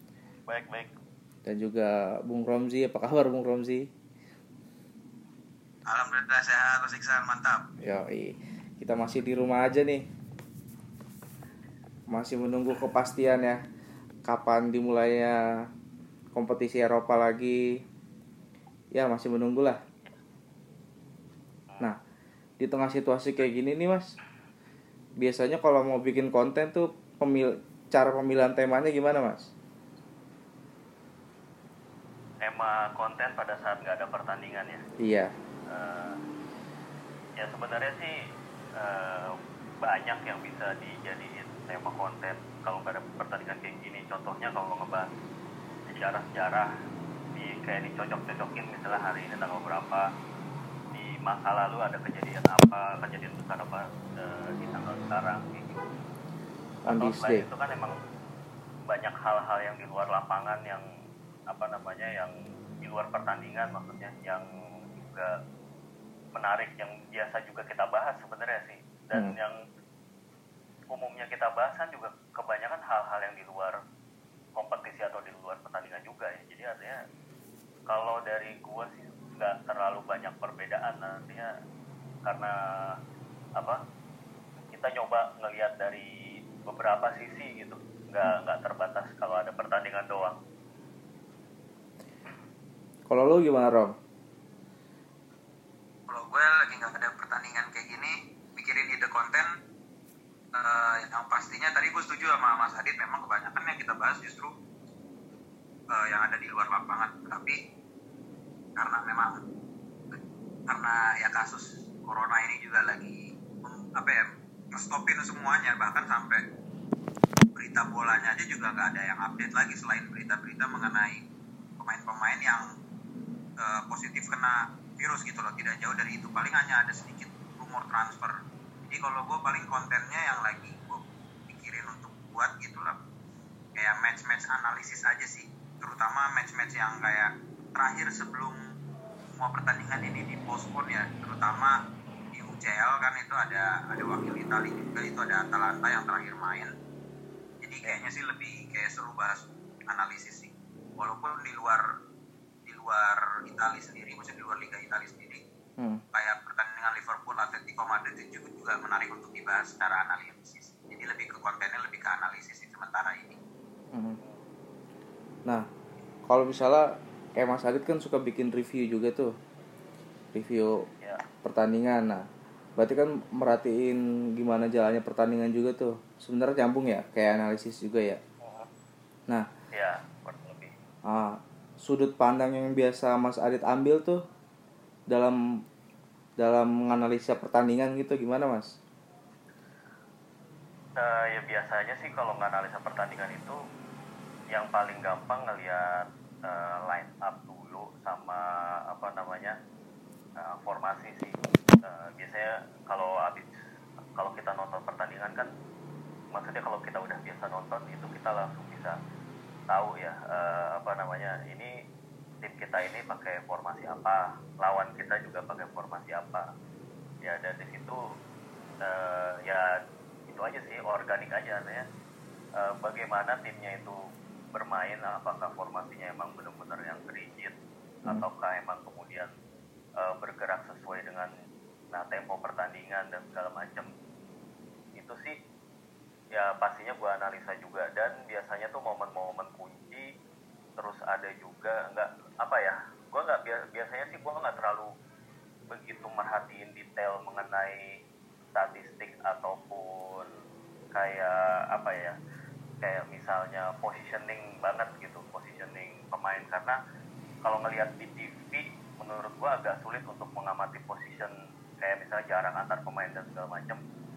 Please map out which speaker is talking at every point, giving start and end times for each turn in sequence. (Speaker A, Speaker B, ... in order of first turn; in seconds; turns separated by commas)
Speaker A: 0.5-0.9, Speaker B: 1.4-3.9, Speaker C: 5.9-7.6, Speaker B: 7.8-10.0, Speaker B: 12.1-13.6, Speaker B: 14.2-15.4, Speaker B: 16.3-17.6, Speaker B: 18.9-19.8, Speaker A: 21.7-21.9, Speaker B: 22.6-24.1, Speaker B: 25.2-29.5, Speaker A: 32.4-34.8, Speaker B: 35.0-35.3, Speaker A: 35.7-36.2, Speaker A: 37.4-38.1, Speaker A: 38.8-45.1, Speaker A: 45.9-46.7, Speaker A: 47.4-50.0, Speaker A: 50.9-55.8, Speaker B: 56.9-57.4, Speaker A: 56.9-57.9, Speaker A: 58.9-60.8, Speaker A: 61.5-64.4, Speaker A: 65.0-65.3, Speaker A: 66.3-69.6, Speaker A: 70.9-73.8, Speaker A: 74.6-77.0, Speaker A: 77.9-81.5, Speaker A: 82.3-83.0, Speaker A: 84.7-86.1, Speaker A: 86.7-90.4, Speaker B: 93.1-93.9, Speaker C: 96.1-99.5, Speaker C: 100.5-104.5, Speaker C: 105.9-107.6, Speaker C: 108.8-109.4, Speaker C: 110.7-116.4, Speaker C: 117.5-121.2, Speaker C: 121.8-122.7, Speaker C: 123.6-128.3, Speaker C: 128.8-133.0, Speaker C: 133.8-138.6, Speaker C: 139.3-141.7, Speaker C: 142.3-146.7, Speaker C: 147.6-151.8, Speaker C: 152.7-155.4, Speaker C: 156.1-163.4, Speaker B: 163.9-164.2, Speaker B: 166.3-169.3, Speaker B: 170.3-170.8, Speaker B: 171.4-172.2, Speaker B: 172.8-178.2, Speaker A: 178.4-178.7, Speaker A: 179.7-180.7, Speaker B: 181.1-184.2, Speaker B: 185.1-185.3, Speaker B: 186.4-188.7, Speaker A: 191.0-193.6, Speaker A: 194.5-199.6, Speaker A: 200.4-203.5, Speaker A: 204.2-205.5, Speaker A: 206.3-208.9, Speaker A: 209.7-211.7, Speaker A: 212.4-216.5, Speaker A: 217.2-218.0, Speaker A: 218.8-219.7, Speaker A: 220.3-221.8, Speaker A: 222.6-224.0, Speaker A: 224.5-227.5, Speaker A: 228.1-229.3, Speaker A: 230.0-231.3, Speaker A: 231.9-233.9, Speaker A: 235.0-235.3, Speaker A: 236.4-240.1, Speaker A: 240.8-244.9, Speaker A: 245.7-247.9, Speaker A: 248.5-250.3, Speaker A: 250.9-252.2, Speaker A: 252.8-256.8, Speaker A: 257.4-263.8